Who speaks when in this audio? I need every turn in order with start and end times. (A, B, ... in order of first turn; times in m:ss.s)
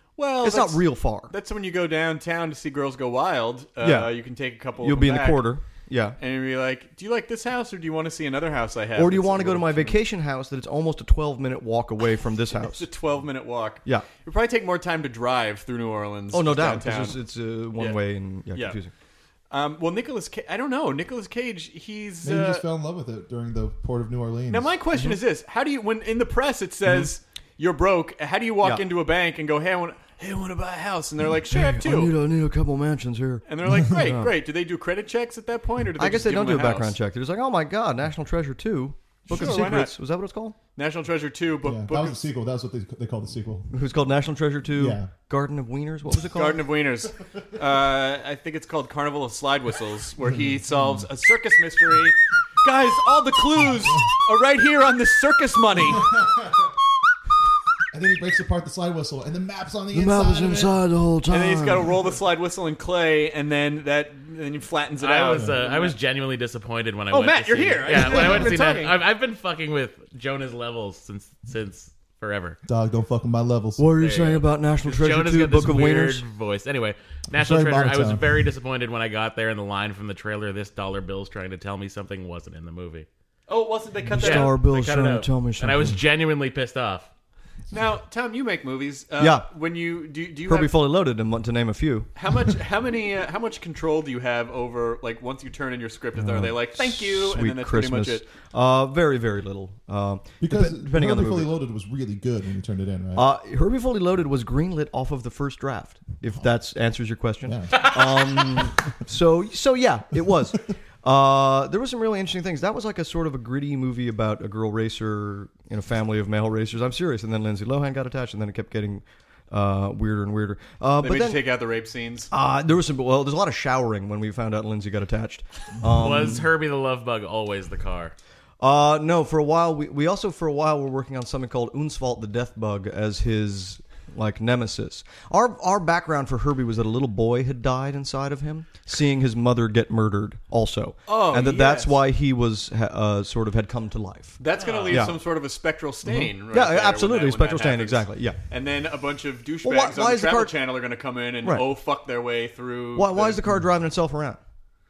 0:00.2-0:05.5 A
0:00.4-0:01.3 B
0:03.8-0:04.2 B
0:04.8-0:06.2 B
0:06.2-0:10.0 A
0:09.0-0:12.8 B
0:12.6-0:17.2 A
0:16.3-0:18.9 B
0:18.5-0:18.8 A
0:19.5-0:22.6 A
0:22.2-0:25.1 C
0:24.5-0:32.1 A
0:28.6-0:28.9 B
0:31.5-0:34.4 B
0:33.5-0:37.0 A
0:36.0-0:40.6 B
0:39.3-0:40.0 A
0:40.8-0:42.3 A
0:41.6-0:43.7 C
0:43.7-0:46.6 B
0:44.8-0:45.1 C
0:46.3-0:56.0 A
0:50.2-0:51.0 C
0:55.9-0:56.7 C
0:57.9-1:00.8 C
0:59.9-1:02.0 B
1:01.3-1:05.9 A
1:05.0-1:12.6 D
1:05.3-1:05.6 C
1:07.1-1:09.0 A
1:08.0-1:08.3 C
1:12.6-1:13.9 C
1:13.8-1:16.2 B
1:14.0-1:23.1 D
1:17.3-1:18.3 C
1:23.5-1:24.7 A
1:24.1-1:26.0 B
1:24.2-1:27.1 D
1:27.7-1:30.7 A
1:29.2-1:29.4 B
1:30.4-1:32.1 B
1:32.2-1:38.3 A
1:36.2-1:41.6 B
1:36.2-1:36.5 C
1:40.4-1:43.3 C
1:43.1-2:01.5 B
1:47.4-1:48.2 C
2:01.0-2:02.3 A
2:02.3-2:06.5 B
2:05.9-2:08.1 D
2:08.6-2:25.2 B
2:21.1-2:22.0 A
2:24.4-2:33.4 A
2:24.6-2:25.1 D
2:26.0-2:28.4 B
2:29.6-2:30.6 B
2:31.4-2:31.7 B
2:32.9-2:34.4 B